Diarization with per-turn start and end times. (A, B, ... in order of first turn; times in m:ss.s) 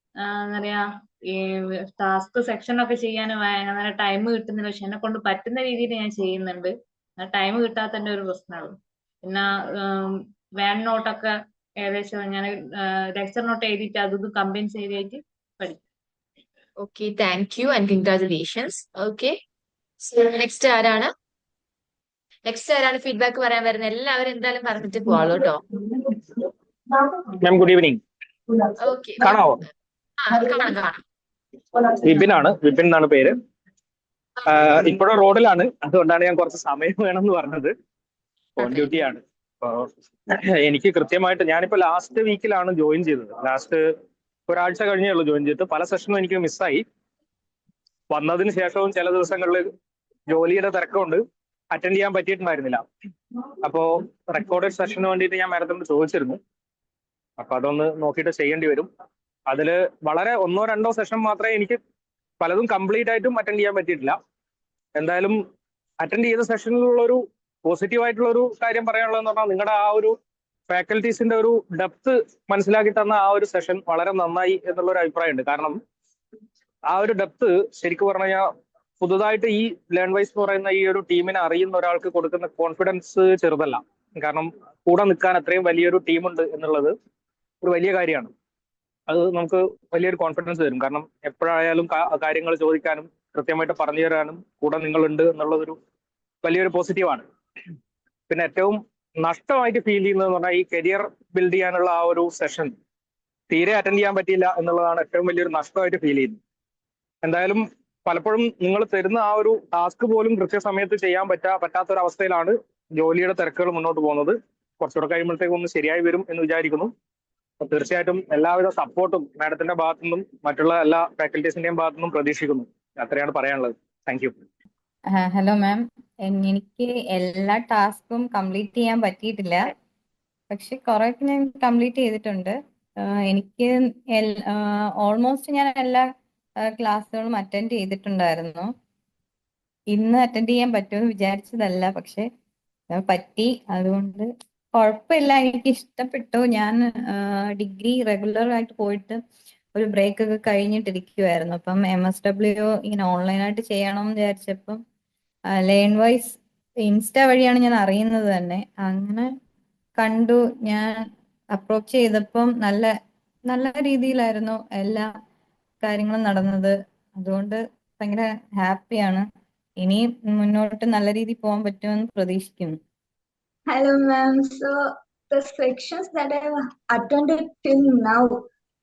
0:00.2-0:15.9 A
0:16.8-0:19.4 B
0:20.0-0:21.1 B
0:22.5-0:25.6 B
0:27.4-0:28.0 C
0:28.8-0:29.3 B
0:30.2-0:31.0 B
0:32.1-0:33.3 C
0:34.6-0:37.7 C
0:38.6-0:39.0 B
0:38.6-0:43.8 C
0:44.5-0:46.8 C
0:48.1-0:49.7 C
0:50.3-0:51.2 C
0:51.7-0:52.8 C
0:53.7-0:56.4 C
0:57.4-0:58.9 C
0:59.5-1:01.8 C
1:02.4-1:04.2 C
1:05.0-1:05.4 C
1:06.0-1:10.1 C
1:10.7-1:15.8 C
1:16.9-1:18.5 C
1:19.0-1:26.9 C
1:27.6-1:28.3 C
1:29.1-1:35.8 C
1:36.4-1:37.2 C
1:38.3-1:42.7 C
1:43.6-1:46.4 C
1:47.3-1:56.9 C
1:57.7-2:04.3 C
2:05.1-2:09.7 D
2:10.5-2:12.6 D
2:13.3-2:16.1 D
2:16.7-2:18.7 D
2:19.9-2:22.3 D
2:22.9-2:29.2 D
2:29.8-2:34.8 D
2:35.6-2:39.3 D
2:40.0-2:41.0 D
2:41.6-2:42.9 D
2:43.5-2:45.1 D
2:45.8-2:49.3 D
2:49.8-2:52.8 D
2:53.7-2:54.8 E
2:55.3-2:58.5 E